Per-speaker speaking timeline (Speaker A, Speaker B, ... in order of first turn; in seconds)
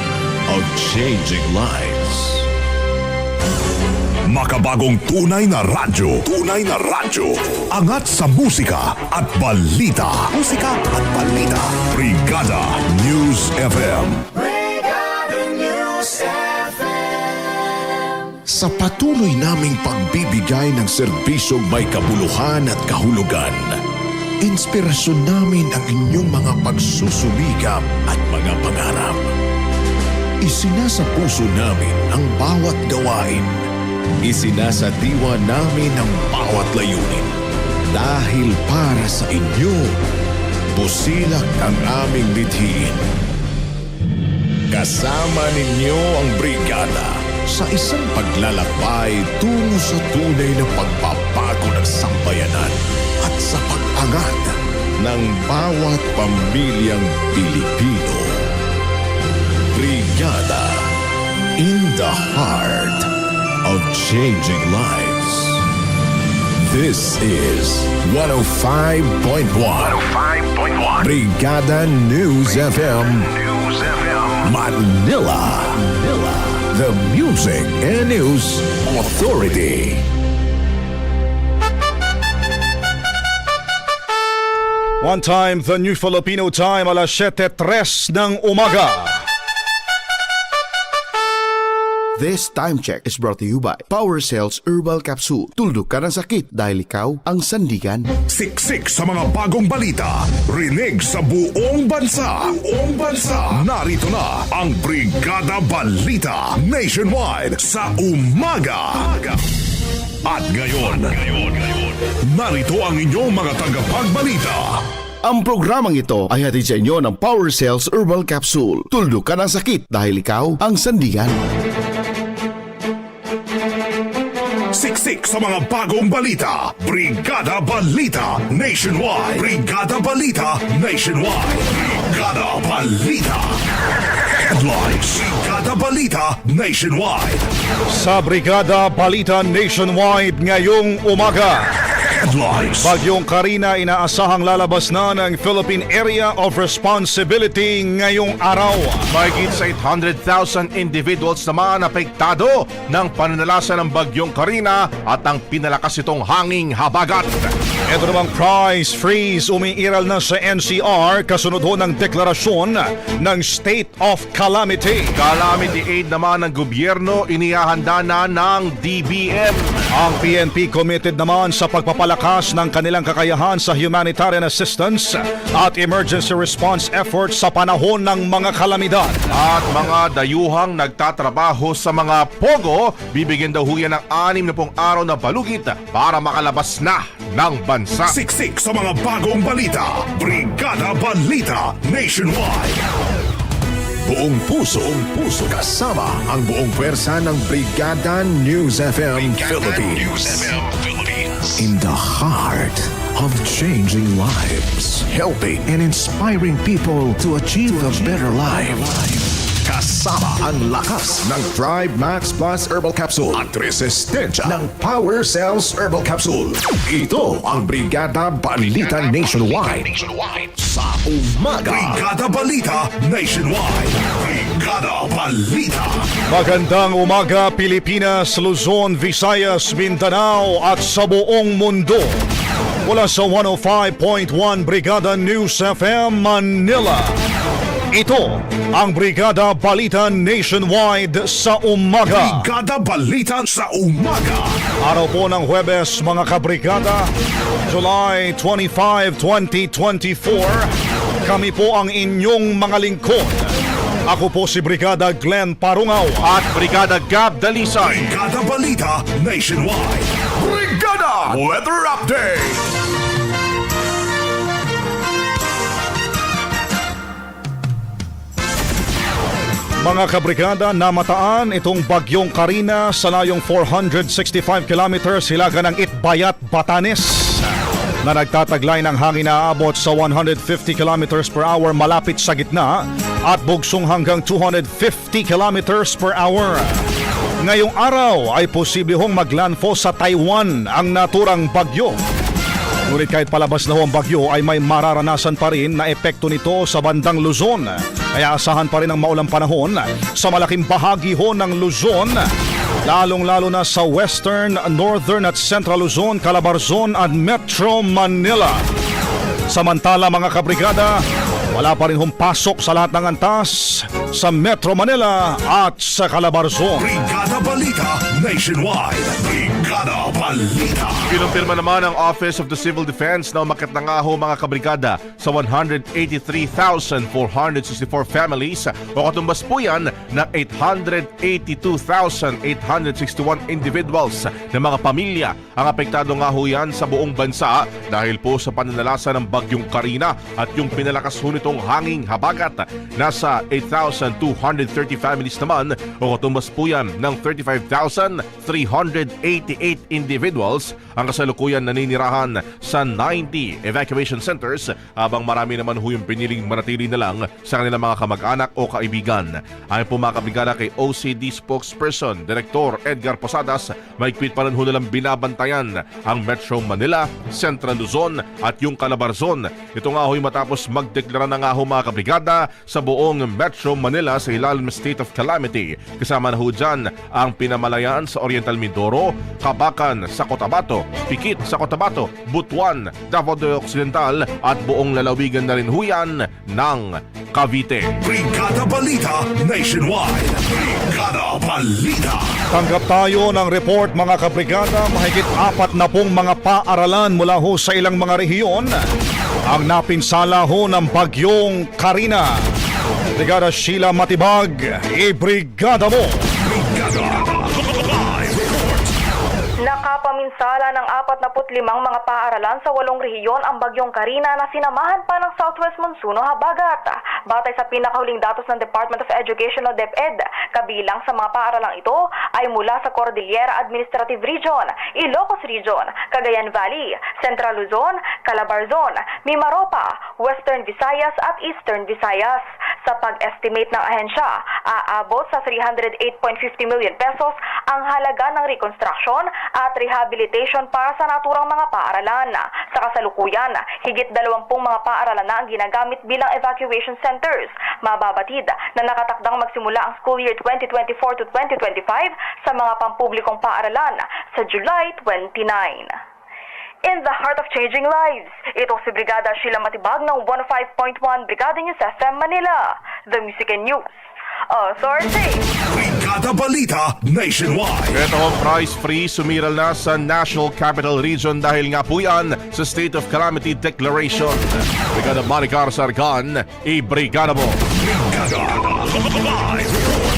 Speaker A: 0.5-2.5, 15.8-16.2, 18.5-23.8, 24.4-29.3, 30.4-33.7, 34.2-37.3, 37.9-40.0, 40.7-43.0, 44.7-58.4, 59.7-60.9, 61.6-63.1, 63.6-65.6, 66.6-80.0, 194.1-222.0
Speaker B: 4.3-14.3, 98.2-109.4, 110.2-114.8, 124.7-133.6, 134.3-137.5, 142.0-142.9, 188.1-192.8, 221.7-226.0, 242.1-244.6, 257.8-262.6, 316.8-321.1, 388.0-392.3, 406.5-408.7, 465.7-468.0, 477.8-478.7
Speaker C: 85.0-89.2, 137.9-141.7, 142.8-149.1, 157.9-165.2, 169.9-179.2, 226.3-232.2, 232.8-237.1, 237.9-242.5, 244.8-247.1, 247.7-250.7, 251.2-253.5, 254.1-256.3, 269.8-277.5, 278.0-286.8, 287.4-292.0, 292.9-302.3, 302.9-308.6, 309.5-311.0, 311.5-316.9, 392.5-398.8, 399.5-402.4, 403.2-406.1
Speaker D: 92.2-98.1, 115.2-121.4
Speaker E: 149.1-157.6, 165.2-169.9, 179.3-188.1, 256.2-258.1, 321.1-387.9, 467.9-477.6
Speaker F: 409.6-456.0, 456.8-463.9, 464.5-465.4